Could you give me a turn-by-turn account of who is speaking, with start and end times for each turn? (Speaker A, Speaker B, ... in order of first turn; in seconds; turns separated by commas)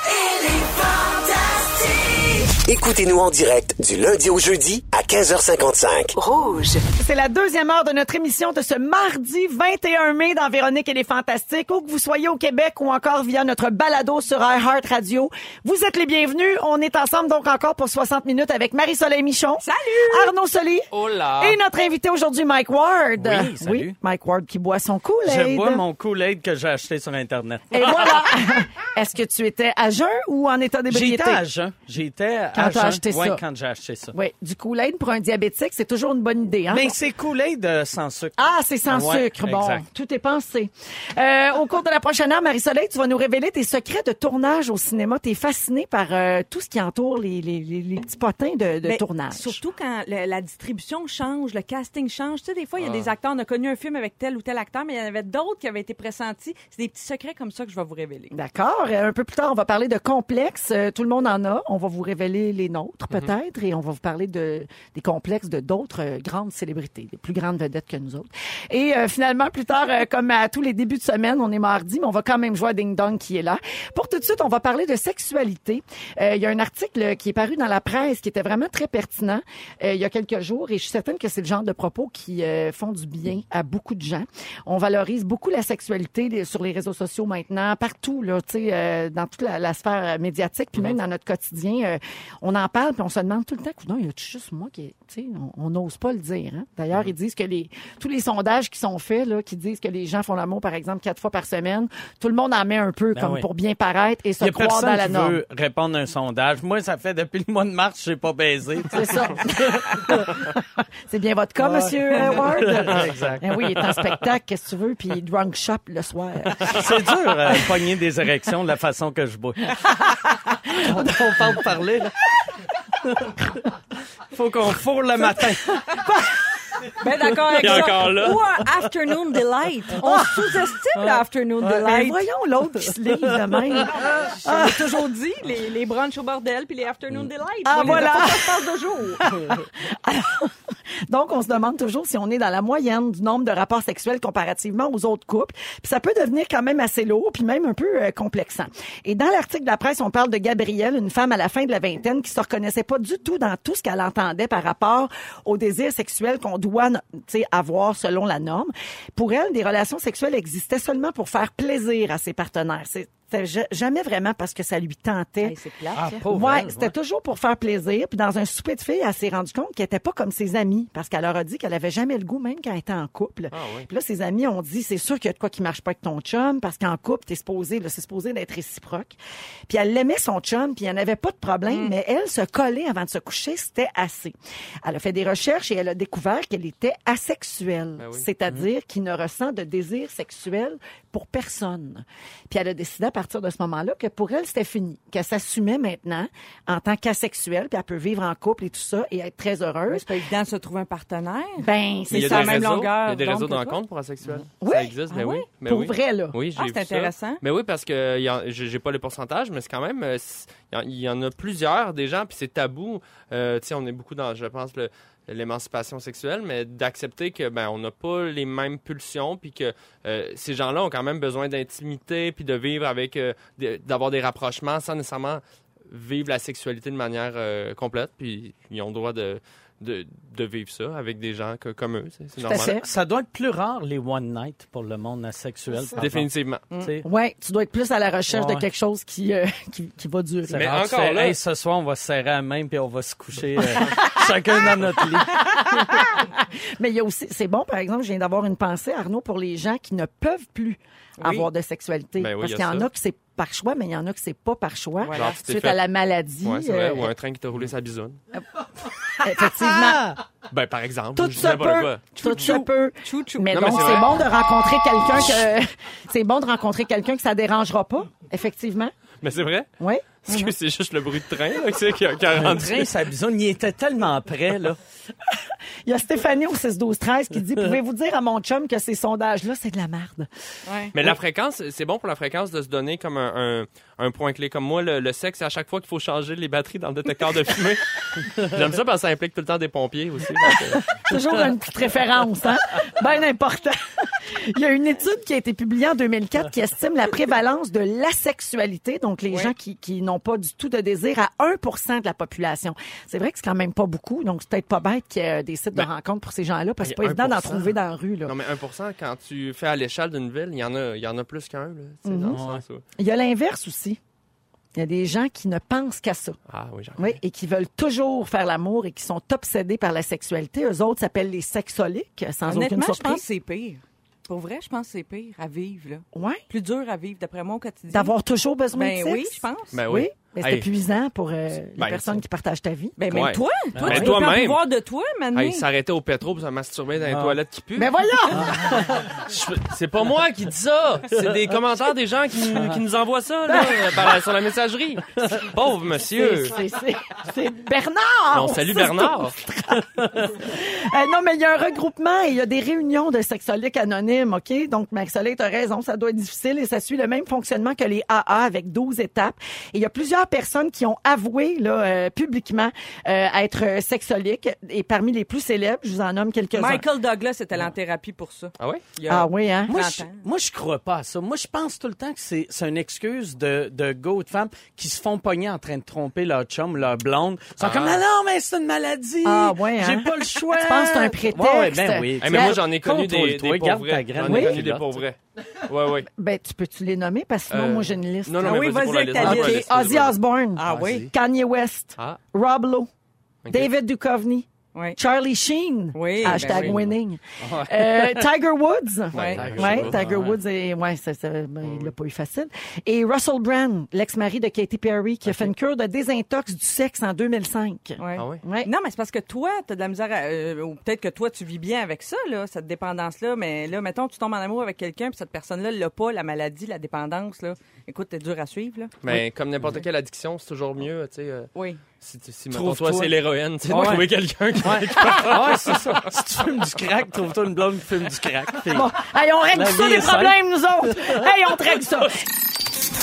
Speaker A: 0.2-6.8, Speaker B: 6.8-25.9, Speaker C: 19.6-20.3, Speaker D: 20.9-21.6, Speaker E: 23.2-23.9, Speaker E: 25.3-27.9, Speaker B: 27.7-31.4, Speaker E: 30.9-34.1, Speaker B: 32.5-33.4, Speaker B: 34.1-37.0, Speaker E: 36.7-38.4, Speaker B: 38.4-49.6, Speaker E: 38.9-39.8, Speaker C: 48.8-58.4, Speaker D: 52.8-53.1, Speaker B: 58.3-105.4, Speaker E: 103.2-103.5, Speaker E: 104.4-110.4, Speaker B: 108.9-117.5, Speaker E: 111.6-113.7, Speaker E: 116.7-119.8, Speaker B: 120.5-121.5, Speaker E: 120.7-122.3, Speaker E: 123.0-123.5, Speaker E: 124.3-126.0, Speaker B: 125.2-126.4, Speaker C: 127.0-132.2, Speaker E: 127.3-127.9, Speaker D: 127.6-128.4, Speaker E: 130.0-130.3, Speaker B: 130.0-130.6, Speaker B: 131.8-134.9, Speaker C: 134.0-139.2, Speaker B: 137.7-140.6, Speaker B: 141.1-165.6, Speaker C: 165.4-166.2, Speaker E: 165.9-166.9, Speaker B: 166.2-200.1, Speaker D: 173.5-173.9, Speaker C: 181.7-181.9, Speaker D: 188.0-188.3, Speaker C: 199.9-203.8, Speaker B: 201.6-202.6, Speaker D: 202.1-232.8, Speaker B: 204.6-205.0, Speaker C: 205.1-205.5, Speaker B: 205.6-206.4, Speaker C: 206.6-207.4, Speaker B: 232.4-232.9, Speaker E: 232.5-237.1, Speaker D: 236.0-236.7, Speaker B: 237.0-240.7, Speaker E: 238.3-238.6, Speaker E: 240.5-245.5, Speaker D: 240.5-241.4, Speaker B: 243.6-244.4, Speaker B: 245.2-257.1, Speaker C: 251.2-251.5, Speaker D: 252.2-252.9, Speaker C: 255.0-255.4, Speaker D: 255.1-255.8, Speaker D: 256.4-258.2, Speaker E: 259.1-260.2, Speaker B: 259.2-260.1, Speaker D: 260.5-262.6, Speaker B: 261.1-268.9, Speaker C: 262.2-264.0, Speaker D: 263.5-264.2, Speaker D: 269.2-269.7, Speaker B: 269.8-270.5, Speaker D: 270.3-272.9, Speaker E: 272.3-274.8, Speaker B: 275.3-280.3, Speaker C: 280.7-280.9, Speaker D: 280.9-291.0, Speaker B: 290.5-308.4, Speaker D: 306.9-307.6, Speaker D: 308.3-312.8, Speaker B: 312.1-312.4, Speaker E: 312.3-312.6, Speaker B: 313.0-314.0, Speaker B: 314.8-316.4, Speaker D: 316.5-317.2, Speaker B: 317.0-323.2, Speaker C: 322.5-328.1, Speaker B: 326.1-326.4, Speaker B: 327.9-333.3, Speaker C: 328.7-329.8, Speaker D: 329.7-330.7, Speaker D: 331.8-332.2, Speaker C: 333.0-335.7, Speaker D: 333.1-334.6, Speaker E: 333.8-334.1, Speaker D: 335.4-337.9, Speaker E: 337.1-337.4, Speaker B: 337.8-338.9, Speaker E: 338.4-339.2, Speaker D: 339.1-346.6, Speaker E: 342.4-342.8, Speaker B: 343.5-344.0, Speaker B: 346.1-366.9, Speaker D: 348.3-349.4, Speaker C: 366.5-370.2, Speaker B: 369.1-369.9, Speaker E: 369.7-385.0, Speaker D: 377.6-378.0, Speaker B: 379.2-382.6, Speaker D: 382.2-386.1, Speaker B: 384.3-384.6, Speaker B: 386.1-392.9, Speaker D: 387.5-390.2, Speaker C: 388.4-389.6, Speaker C: 390.6-391.1, Speaker E: 390.6-391.1, Speaker D: 393.4-393.7, Speaker B: 393.5-408.7, Speaker C: 395.9-396.7, Speaker E: 396.2-396.9, Speaker E: 397.4-398.3, Speaker D: 399.1-400.0, Speaker C: 399.1-399.4, Speaker E: 399.3-400.4, Speaker D: 401.6-401.9, Speaker C: 408.0-418.9, Speaker D: 408.2-408.4, Speaker D: 419.0-421.5, Speaker C: 421.6-421.8, Speaker D: 422.0-426.1, Speaker E: 422.5-423.1, Speaker E: 423.7-428.9, Speaker B: 428.7-432.2, Speaker E: 429.5-431.2